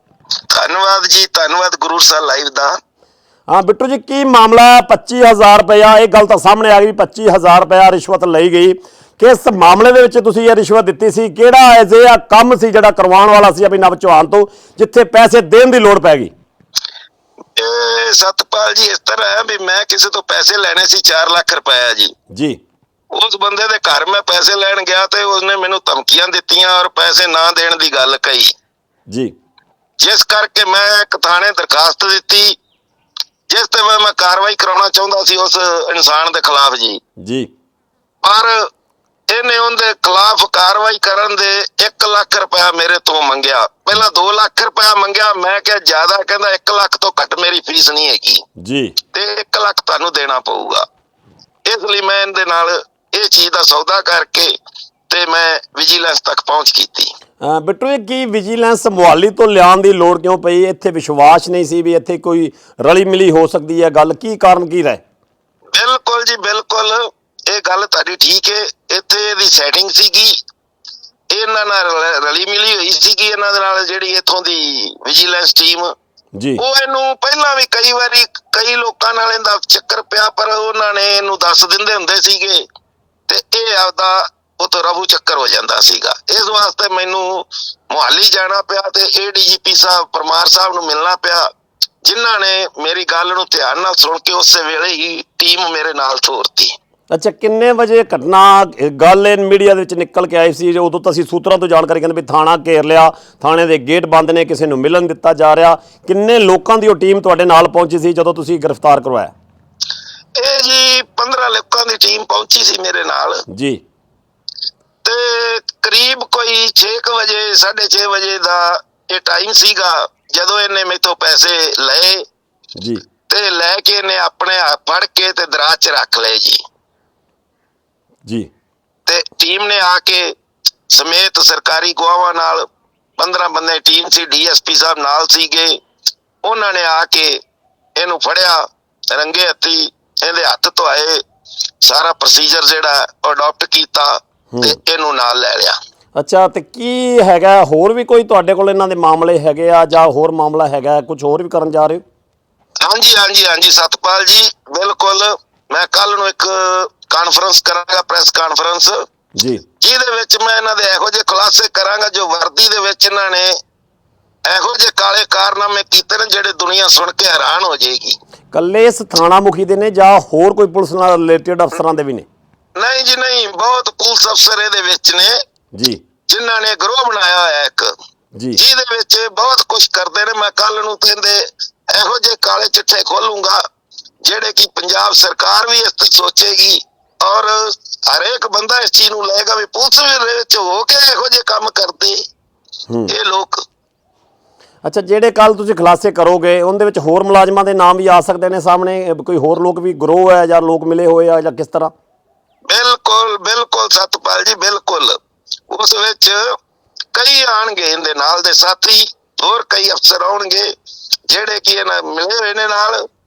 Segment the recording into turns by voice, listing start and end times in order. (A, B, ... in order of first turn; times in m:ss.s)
0:00.5-0:02.8 A
0:03.5-0:16.3 B
0:17.6-0:22.1 A
0:22.3-0:22.6 B
0:23.1-0:28.5 A
0:29.1-0:29.3 B
0:30.0-0:32.6 A
0:33.5-0:37.0 A
0:37.2-0:37.5 B
0:38.2-0:38.7 A
0:39.3-0:48.4 A
0:48.6-0:49.0 B
0:49.1-0:50.8 A
0:51.7-0:54.5 A
0:55.1-0:57.1 A
0:57.4-1:05.0 B
1:05.7-1:10.4 A
1:11.3-1:15.9 A
1:16.4-1:16.6 B
1:16.6-1:22.6 A
1:23.3-1:31.5 A
1:32.0-1:36.7 A
1:37.1-1:49.3 B
1:50.4-1:53.4 A
1:53.5-1:53.8 B
1:55.0-2:02.2 A
2:02.8-2:03.0 B
2:03.3-2:06.6 A
2:09.1-2:10.4 A
2:10.9-2:12.7 A
2:13.2-2:15.8 A
2:16.4-2:17.4 A
2:18.0-2:21.2 A
2:21.8-2:25.8 A
2:24.5-2:24.8 B
2:26.2-2:32.0 B
2:32.8-2:39.0 A
2:39.4-2:39.6 B
2:39.8-2:43.6 A
2:44.5-2:48.2 A
2:48.5-2:52.3 B
2:52.8-2:55.4 A
2:55.7-2:56.0 B
2:56.3-2:57.9 A
2:58.5-3:03.6 A
3:04.2-3:12.2 A
3:13.1-3:13.6 A
3:14.8-3:21.9 B
3:22.7-3:25.2 A
3:25.7-3:26.6 A
3:27.2-3:30.7 A
3:31.3-3:33.0 A